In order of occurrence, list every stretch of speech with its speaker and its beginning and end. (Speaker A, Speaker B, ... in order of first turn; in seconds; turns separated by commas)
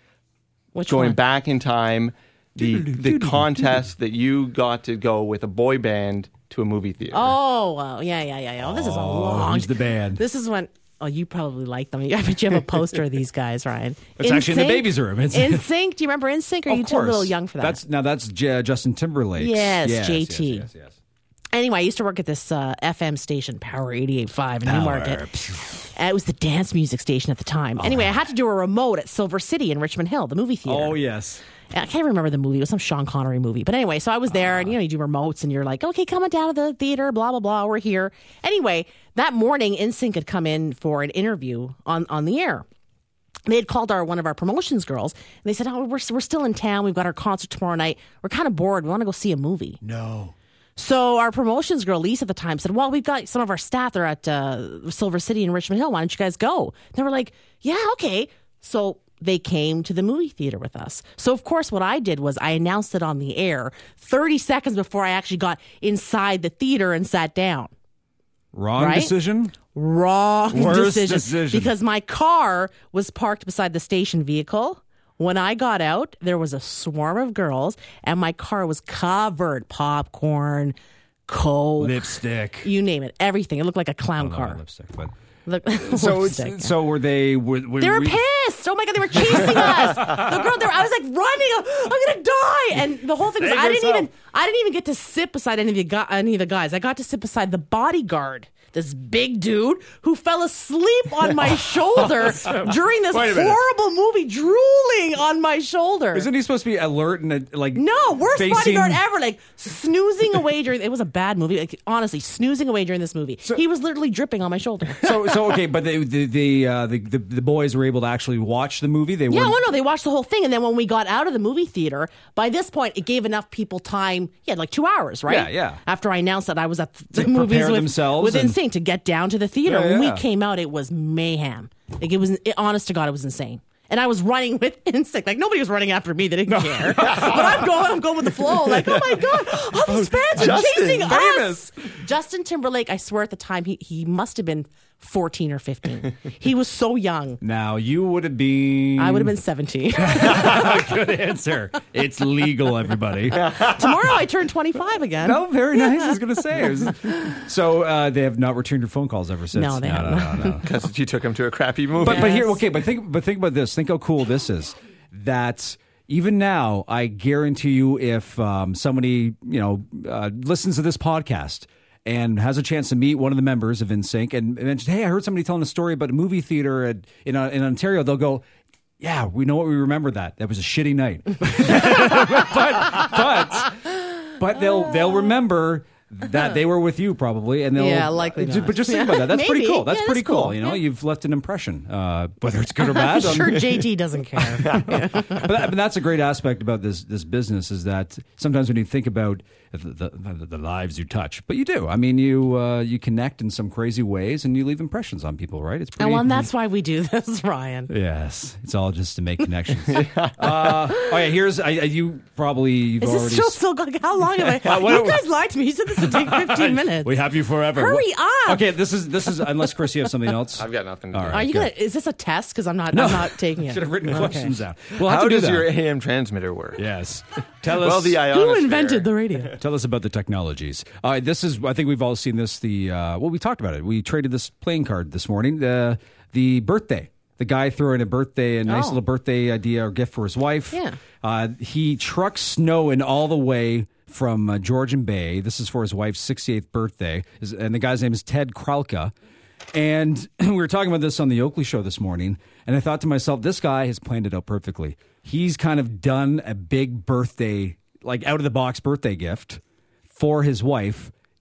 Speaker A: 0.7-1.2, Speaker B: 0.9-7.3, Speaker C: 2.6-3.9, Speaker A: 7.1-17.8, Speaker C: 8.6-10.2, Speaker C: 14.2-15.7, Speaker C: 16.7-20.9, Speaker A: 19.4-20.7, Speaker A: 21.5-25.2, Speaker C: 24.6-25.9, Speaker A: 25.9-31.0, Speaker C: 27.8-28.1, Speaker C: 30.7-31.4, Speaker A: 31.7-42.6, Speaker C: 34.3-34.7, Speaker A: 43.5-49.8, Speaker C: 49.8-50.3, Speaker A: 50.8-67.7, Speaker C: 68.5-69.6, Speaker A: 68.8-69.1, Speaker A: 69.7-80.7, Speaker C: 70.5-71.7, Speaker A: 81.3-84.6, Speaker C: 81.8-82.7, Speaker C: 84.2-85.1, Speaker A: 85.5-86.7, Speaker C: 85.7-88.2, Speaker A: 87.8-106.3, Speaker C: 89.2-90.2, Speaker C: 93.4-94.1, Speaker C: 101.4-103.6, Speaker C: 106.1-109.0, Speaker A: 107.7-115.3, Speaker C: 115.0-119.6, Speaker A: 119.3-147.4, Speaker C: 125.2-125.8, Speaker C: 127.1-128.6, Speaker C: 129.6-130.2, Speaker C: 136.5-137.7, Speaker B: 139.9-141.2, Speaker C: 140.4-141.7, Speaker C: 147.4-149.3, Speaker A: 149.0-150.9, Speaker C: 149.9-153.7, Speaker A: 153.4-156.2, Speaker B: 153.4-153.8, Speaker C: 155.2-160.7, Speaker A: 159.5-160.6, Speaker B: 160.6-162.4, Speaker C: 162.0-178.4, Speaker A: 162.0-162.6, Speaker C: 179.0-193.8, Speaker A: 187.8-190.8, Speaker A: 192.8-195.5, Speaker C: 194.6-206.5, Speaker A: 206.0-207.9, Speaker C: 207.9-213.6, Speaker B: 210.1-210.3, Speaker A: 213.0-217.1, Speaker C: 214.4-215.2, Speaker C: 216.0-221.7, Speaker A: 217.7-218.7, Speaker B: 220.5-221.5, Speaker A: 221.3-224.6, Speaker C: 222.9-225.7, Speaker B: 225.0-226.8, Speaker C: 226.8-228.3, Speaker B: 227.7-229.1, Speaker A: 228.3-229.6, Speaker C: 229.5-249.1, Speaker A: 238.7-239.0, Speaker A: 240.7-241.0, Speaker C: 249.7-259.6, Speaker C: 260.1-261.1